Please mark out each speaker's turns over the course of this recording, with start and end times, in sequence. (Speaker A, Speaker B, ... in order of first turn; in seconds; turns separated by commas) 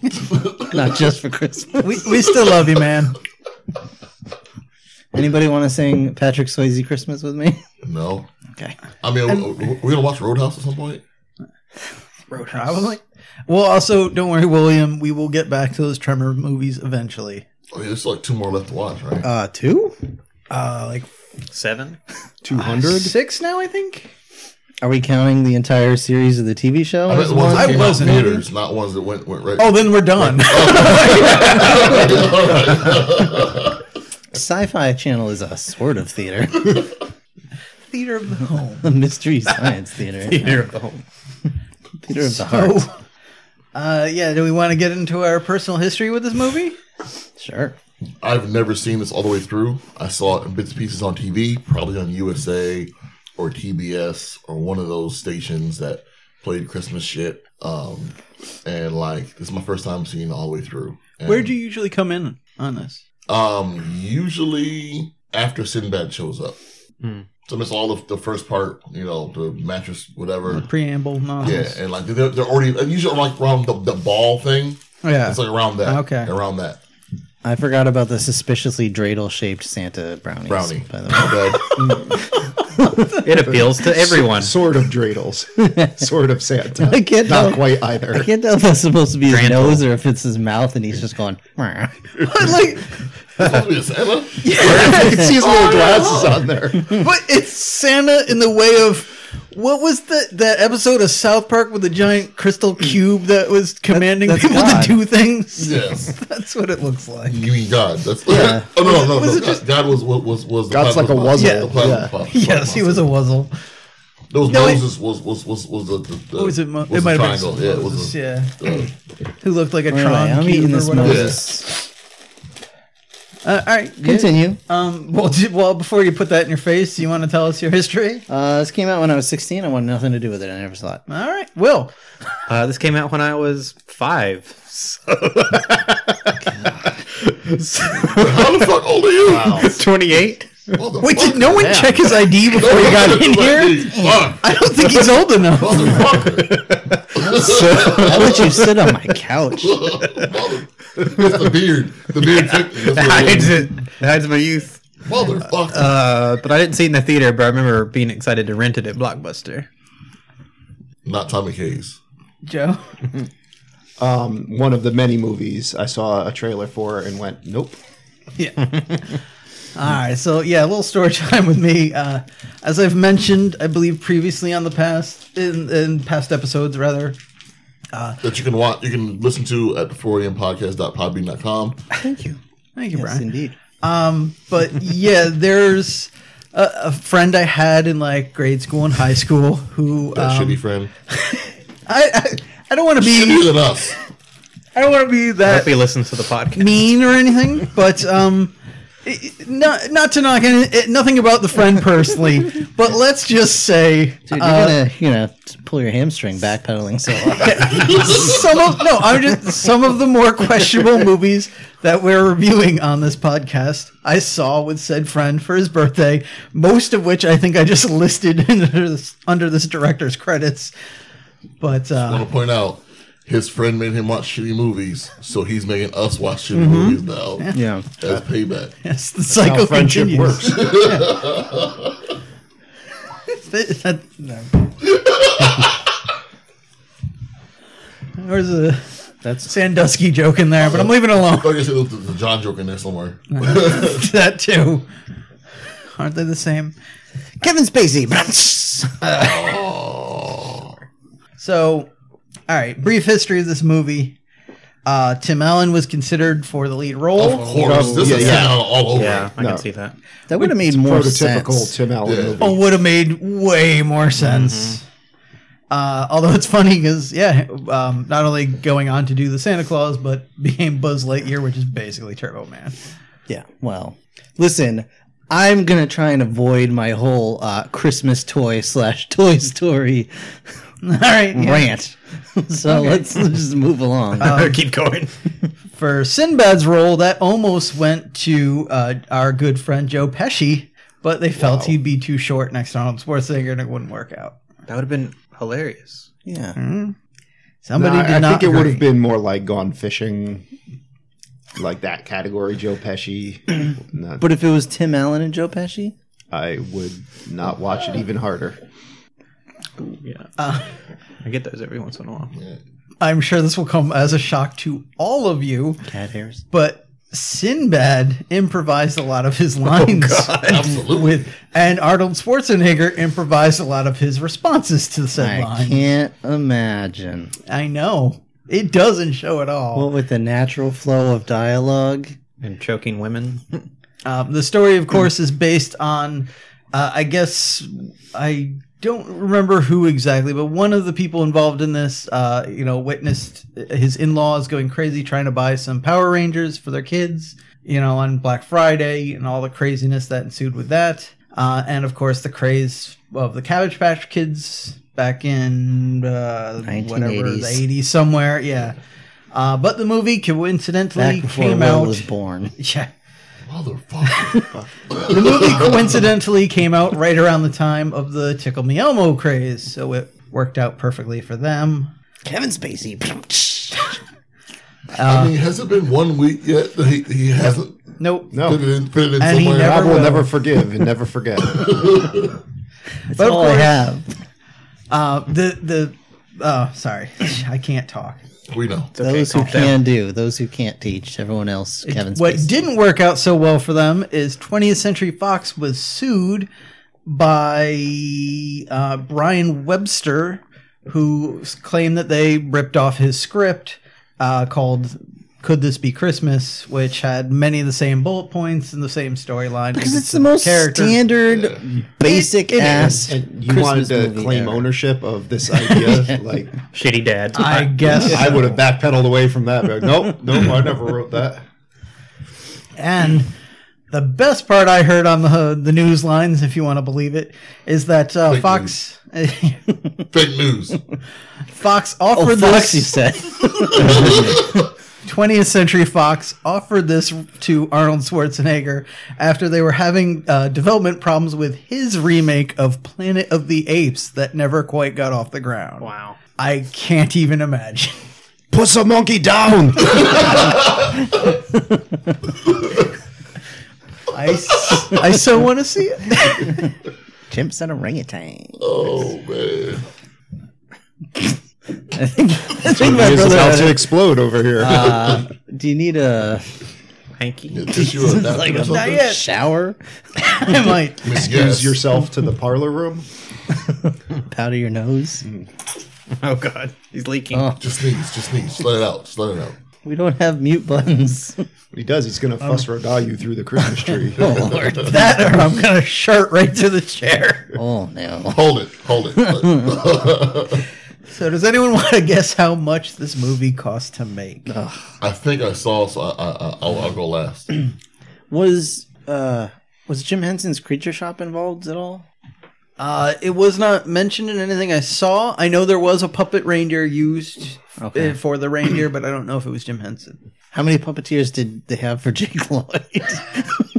Speaker A: 0.6-2.2, Speaker B: 1.8-3.2, Speaker A: 5.1-7.6, Speaker C: 7.8-8.3, Speaker C: 9.0-11.0, Speaker B: 12.3-17.4, Speaker C: 17.7-19.3, Speaker A: 19.2-19.9, Speaker B: 20.5-21.1, Speaker D: 21.5-22.0, Speaker E: 22.4-23.1, Speaker B: 22.5-24.1, Speaker A: 24.8-28.4, Speaker C: 27.1-33.7, Speaker B: 27.5-28.4, Speaker B: 29.6-32.7, Speaker A: 34.3-36.9, Speaker B: 37.9-38.9, Speaker A: 38.8-40.7, Speaker D: 40.2-41.0, Speaker A: 42.0-42.9, Speaker B: 42.2-43.0, Speaker B: 43.7-46.8, Speaker A: 47.4-47.8, Speaker C: 48.2-61.5, Speaker B: 61.2-63.0, Speaker C: 63.3-66.6, Speaker D: 67.0-67.3, Speaker C: 67.5-70.7, Speaker B: 70.5-71.8, Speaker C: 71.4-76.8, Speaker B: 75.0-76.3, Speaker A: 77.4-82.0, Speaker C: 80.5-82.0, Speaker E: 81.8-82.2, Speaker D: 83.2-84.6, Speaker E: 83.3-88.3, Speaker A: 86.8-92.3, Speaker D: 89.3-89.8, Speaker B: 92.2-92.9, Speaker C: 93.4-96.4, Speaker B: 94.4-95.3, Speaker E: 94.6-97.0, Speaker A: 94.9-95.3, Speaker B: 96.9-107.4, Speaker A: 103.9-105.0, Speaker C: 105.6-106.2, Speaker C: 107.3-113.1, Speaker A: 108.3-108.7, Speaker B: 108.7-109.6, Speaker E: 110.7-112.1, Speaker B: 111.4-113.5, Speaker C: 114.3-118.9, Speaker B: 114.5-114.8, Speaker B: 116.3-118.9, Speaker B: 119.4-121.4, Speaker A: 119.9-121.8, Speaker C: 121.0-121.4, Speaker B: 123.4-128.2, Speaker A: 124.0-124.6, Speaker A: 128.3-131.0, Speaker B: 131.1-131.9, Speaker D: 132.5-136.7, Speaker D: 137.2-138.6, Speaker C: 138.0-139.8, Speaker E: 139.2-139.8, Speaker D: 139.4-140.5, Speaker C: 140.7-144.6, Speaker B: 141.0-146.3, Speaker E: 141.5-142.0, Speaker C: 145.5-148.9, Speaker D: 146.4-147.0, Speaker A: 147.2-149.8, Speaker D: 147.6-147.8, Speaker C: 149.6-153.7, Speaker D: 152.2-154.8, Speaker C: 155.0-155.9, Speaker D: 155.7-159.7, Speaker C: 161.0-162.0, Speaker B: 162.4-162.9, Speaker E: 164.0-167.8, Speaker B: 168.4-169.0, Speaker B: 169.7-177.2, Speaker B: 177.9-178.2, Speaker C: 178.2-181.8, Speaker A: 181.9-182.4, Speaker B: 182.8-183.3, Speaker A: 182.9-183.6, Speaker B: 183.8-193.5, Speaker C: 190.1-190.9, Speaker C: 193.0-193.9, Speaker B: 194.7-195.8, Speaker D: 195.4-196.8, Speaker B: 196.5-198.5, Speaker B: 199.0-204.8, Speaker A: 204.3-208.3, Speaker B: 207.4-220.7, Speaker C: 207.6-208.4, Speaker B: 221.6-222.3, Speaker C: 222.0-228.7, Speaker B: 226.5-227.6, Speaker A: 227.5-227.8, Speaker B: 228.8-231.4, Speaker E: 229.3-230.7, Speaker C: 230.5-231.9, Speaker B: 233.3-234.7, Speaker C: 234.8-235.7, Speaker B: 238.2-238.9, Speaker A: 239.2-239.5, Speaker B: 239.4-241.5, Speaker C: 240.6-244.1, Speaker B: 243.3-244.9, Speaker B: 245.9-246.7, Speaker A: 247.4-249.0, Speaker B: 249.0-249.5, Speaker C: 249.1-250.7, Speaker B: 251.4-251.9, Speaker B: 252.5-254.2, Speaker B: 254.8-258.4, Speaker C: 257.1-259.3, Speaker E: 257.6-258.6, Speaker D: 258.2-259.9, Speaker E: 259.4-259.6, Speaker A: 260.3-261.8, Speaker E: 260.3-262.7, Speaker C: 262.0-262.6, Speaker B: 262.4-264.8, Speaker D: 264.2-264.8, Speaker B: 265.7-272.7, Speaker A: 273.3-280.5, Speaker B: 280.8-281.7, Speaker A: 281.3-284.4, Speaker B: 282.7-283.0, Speaker D: 284.2-285.1, Speaker B: 284.2-284.6, Speaker B: 285.7-294.4, Speaker E: 291.4-291.8, Speaker D: 294.7-296.1, Speaker A: 296.2-296.6, Speaker B: 296.6-296.9, Speaker B: 297.6-298.9, Speaker E: 297.8-300.4, Speaker E: 301.5-304.2, Speaker A: 304.2-305.9, Speaker E: 306.3-308.6, Speaker D: 309.8-310.3, Speaker B: 310.4-310.7, Speaker D: 311.2-312.3, Speaker C: 312.3-312.6, Speaker B: 313.0-315.9, Speaker A: 315.8-316.4, Speaker B: 316.5-325.9, Speaker D: 319.6-320.8, Speaker C: 320.4-321.3, Speaker A: 325.1-327.3, Speaker B: 327.5-329.9, Speaker A: 329.7-332.1, Speaker D: 332.4-333.6, Speaker B: 334.0-358.8, Speaker A: 356.6-357.6, Speaker B: 359.3-362.9, Speaker A: 360.9-362.5, Speaker C: 363.5-366.0, Speaker B: 364.2-371.9, Speaker A: 372.2-373.9, Speaker B: 374.9-375.3, Speaker C: 375.0-380.0, Speaker B: 378.0-378.3, Speaker E: 378.3-378.6, Speaker B: 379.2-380.3, Speaker E: 379.6-382.0, Speaker C: 381.5-382.4, Speaker B: 383.1-383.9, Speaker A: 383.1-384.1, Speaker B: 384.9-388.2, Speaker C: 388.5-388.9, Speaker D: 388.9-389.8, Speaker A: 389.0-392.6, Speaker B: 391.8-396.5, Speaker B: 397.1-411.0, Speaker A: 409.7-414.7, Speaker C: 411.3-411.6, Speaker B: 412.0-413.1, Speaker E: 412.8-416.6, Speaker A: 415.6-416.2, Speaker D: 416.7-418.1, Speaker B: 417.3-418.5, Speaker E: 417.9-421.4, Speaker B: 422.8-423.3, Speaker B: 423.9-429.7, Speaker C: 428.2-428.7, Speaker C: 430.1-430.8, Speaker B: 431.5-432.9, Speaker A: 432.1-434.7, Speaker C: 433.8-434.4, Speaker B: 435.0-448.0, Speaker D: 445.8-446.2, Speaker E: 448.5-450.5, Speaker A: 451.5-451.8, Speaker B: 454.1-456.7, Speaker C: 454.5-454.9, Speaker A: 457.3-458.6, Speaker C: 458.6-459.8, Speaker A: 461.9-463.9, Speaker E: 462.6-465.2, Speaker A: 464.6-466.5, Speaker D: 467.2-467.8, Speaker C: 467.5-469.0, Speaker A: 467.7-470.6, Speaker B: 468.7-469.2, Speaker B: 470.2-471.1, Speaker C: 471.0-471.8, Speaker E: 471.1-473.0, Speaker A: 473.6-475.2, Speaker D: 476.2-477.5, Speaker A: 477.3-477.6, Speaker C: 477.6-479.5, Speaker A: 479.8-481.4, Speaker E: 481.7-484.6, Speaker A: 484.1-485.4, Speaker C: 484.3-484.9, Speaker B: 484.8-487.5, Speaker A: 487.5-488.4, Speaker C: 488.3-490.6, Speaker A: 489.1-489.8, Speaker B: 491.1-494.5, Speaker A: 494.5-494.9, Speaker C: 495.0-497.5, Speaker A: 498.3-502.0, Speaker B: 502.8-510.2, Speaker A: 507.8-508.2, Speaker A: 510.5-513.6